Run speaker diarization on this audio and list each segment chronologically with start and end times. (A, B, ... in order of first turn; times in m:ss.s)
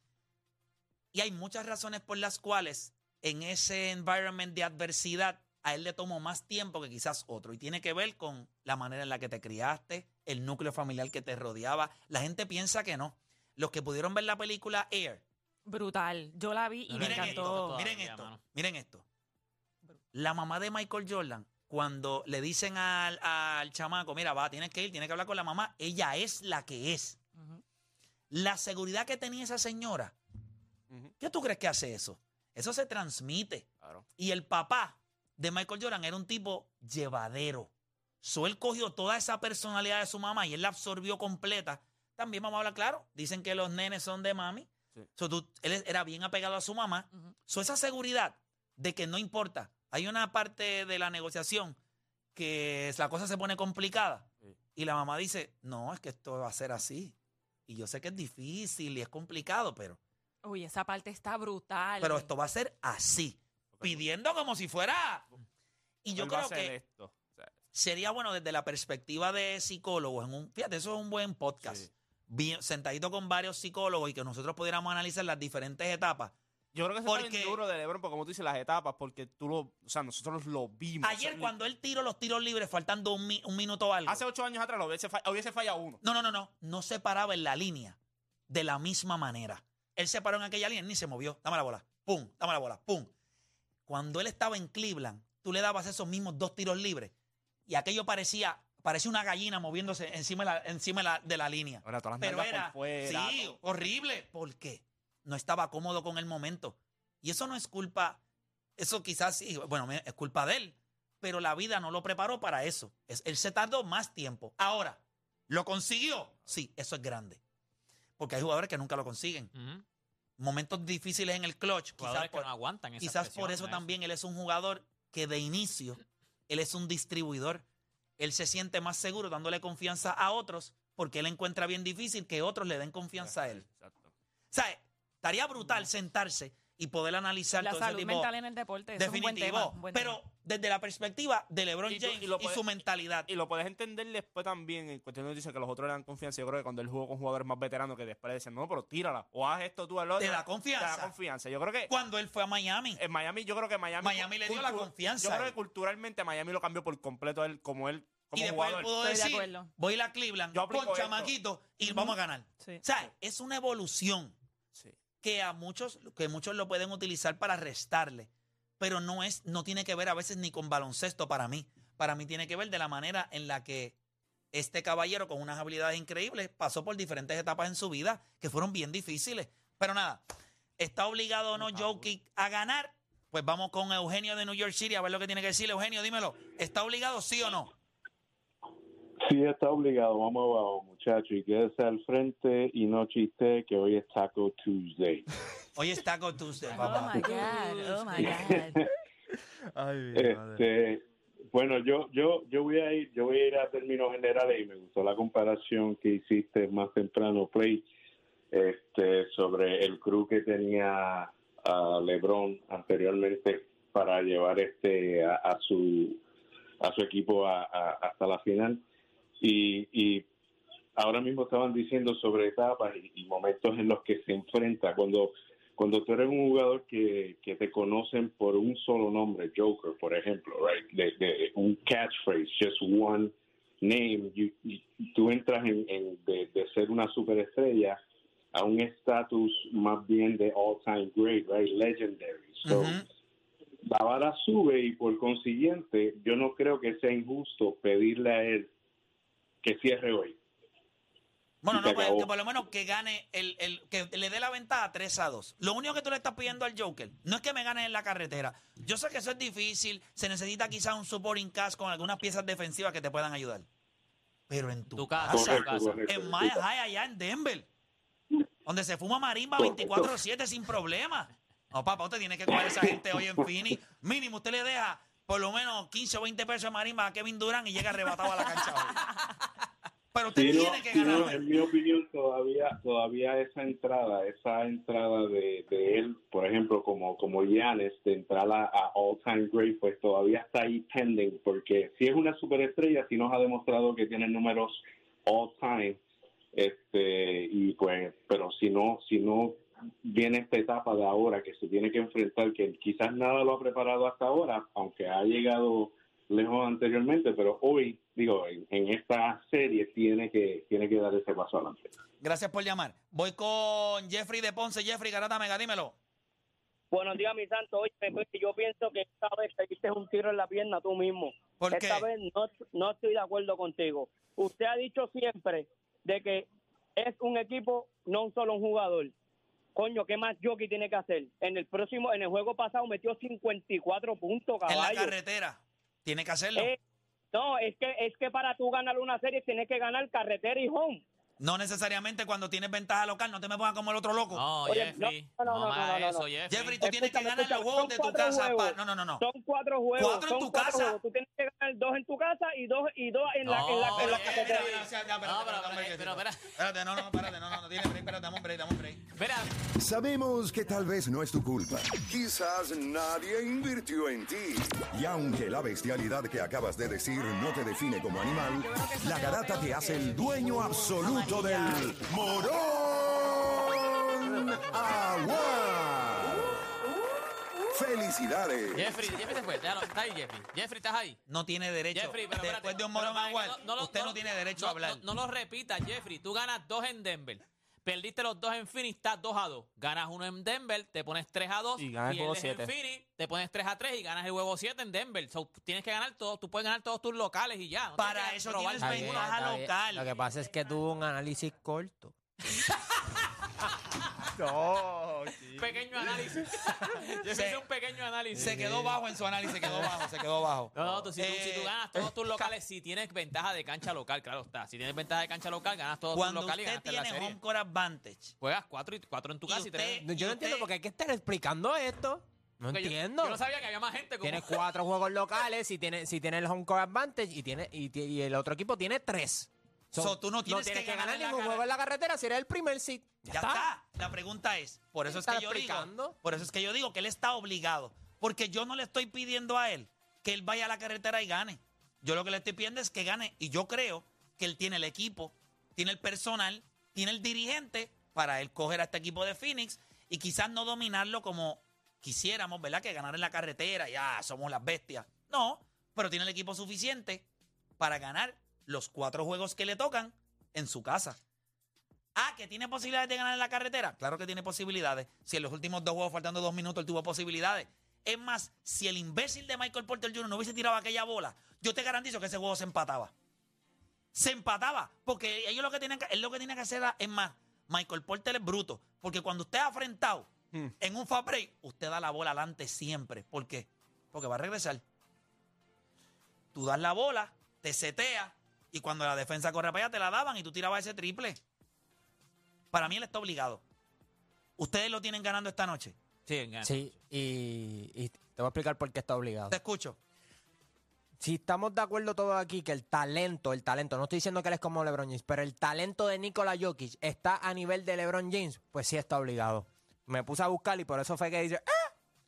0:01.1-0:15.2 A
0:15.6-0:17.8 B
0:16.9-0:18.4 C
0:17.0-0:19.0 A
0:20.1-0:27.2 A
0:28.3-0:30.1 A
0:31.2-0:37.7 A
0:38.2-0:51.8 A
0:52.3-0:57.1 A
0:57.7-1:00.0 A
1:00.4-1:02.3 B
1:02.0-1:05.3 A
1:03.7-1:04.0 D
1:06.0-1:06.8 A
1:06.2-1:07.5 D
1:07.7-1:16.3 A
1:11.6-1:11.9 D
1:16.7-1:21.5 D
1:17.0-1:17.6 A
1:21.0-1:24.2 A
1:24.1-1:26.0 D
1:26.0-1:28.0 A
1:28.5-1:33.1 A
1:33.9-1:37.1 A
1:37.7-1:48.2 A
1:41.8-1:43.6 D
1:48.8-1:57.4 A
1:58.2-1:59.5 A
1:59.5-1:59.8 C
2:00.4-2:02.5 A
2:02.0-2:03.8 C
2:03.0-2:07.6 A
2:08.2-2:13.6 A
2:13.2-2:14.1 D
2:14.5-2:18.3 A
2:17.6-2:20.2 B
2:19.0-2:23.3 A
2:21.9-2:22.6 D
2:23.3-2:31.9 D
2:30.2-2:31.1 A
2:31.9-2:33.0 A
2:33.0-2:38.9 D
2:34.0-2:35.6 A
2:38.3-2:44.4 A
2:38.9-2:39.7 B
2:40.5-2:41.3 D
2:41.8-2:42.8 B
2:45.2-2:48.3 A
2:48.8-2:53.9 A
2:54.5-3:00.2 A
3:00.8-3:07.7 A
3:09.2-3:15.3 E
3:15.8-3:17.3 A
3:16.7-3:18.8 B
3:18.0-3:18.9 E
3:20.1-3:27.9 E
3:28.5-3:36.2 E
3:36.8-3:38.8 E
3:39.4-3:40.3 E
3:41.0-3:58.0 E
3:58.5-4:03.0 E
4:02.6-4:03.0 A
4:03.8-4:08.7 E
4:09.6-4:10.4 E
4:11.6-4:23.7 A
4:11.7-4:12.3 E
4:24.5-4:27.7 A
4:25.0-4:26.0 C
4:25.2-4:26.6 E
4:28.6-4:39.1 A
4:29.6-4:30.2 E
4:32.6-4:33.0 E
4:40.1-4:41.5 A
4:40.3-4:56.0 E
4:56.5-5:11.9 E
5:12.2-5:16.0 A
5:16.9-5:29.1 F
5:21.6-5:22.0 A
5:29.7-5:35.1 F
5:34.7-5:36.7 A
5:37.3-5:41.0 F
5:41.4-5:44.6 A
5:44.3-5:46.8 C
5:44.6-5:46.3 F
5:46.5-5:49.2 A
5:46.8-5:54.8 F
5:50.0-5:51.0 A
5:53.4-5:56.5 C
5:53.9-5:59.0 A
5:59.1-5:59.6 C
5:59.8-6:16.6 G
6:08.4-6:12.2 B
6:17.7-6:19.0 G
6:18.7-6:21.2 C
6:21.3-6:25.0 A
6:21.9-6:39.3 C
6:31.8-6:32.7 D
6:38.0-6:40.1 A
6:38.8-6:42.1 H
6:44.4-6:45.7 D
6:45.5-6:48.7 C
6:47.3-6:47.6 A
6:48.3-6:51.7 A
6:50.7-6:57.4 C
6:56.1-6:58.3 A
6:58.4-7:00.0 C
6:59.5-7:00.7 A
7:00.0-7:03.4 H
7:02.7-7:04.6 C
7:04.2-7:13.7 H
7:10.0-7:11.6 A
7:13.3-7:37.2 A
7:15.0-7:16.2 H
7:37.8-7:41.2 A
7:42.2-7:53.1 A
7:54.1-8:04.8 A
8:06.5-8:11.4 A
8:12.7-8:13.6 A
8:14.6-8:16.0 A
8:16.3-8:16.9 C
8:16.6-8:19.6 H
8:19.5-8:20.0 A
8:21.2-8:31.9 H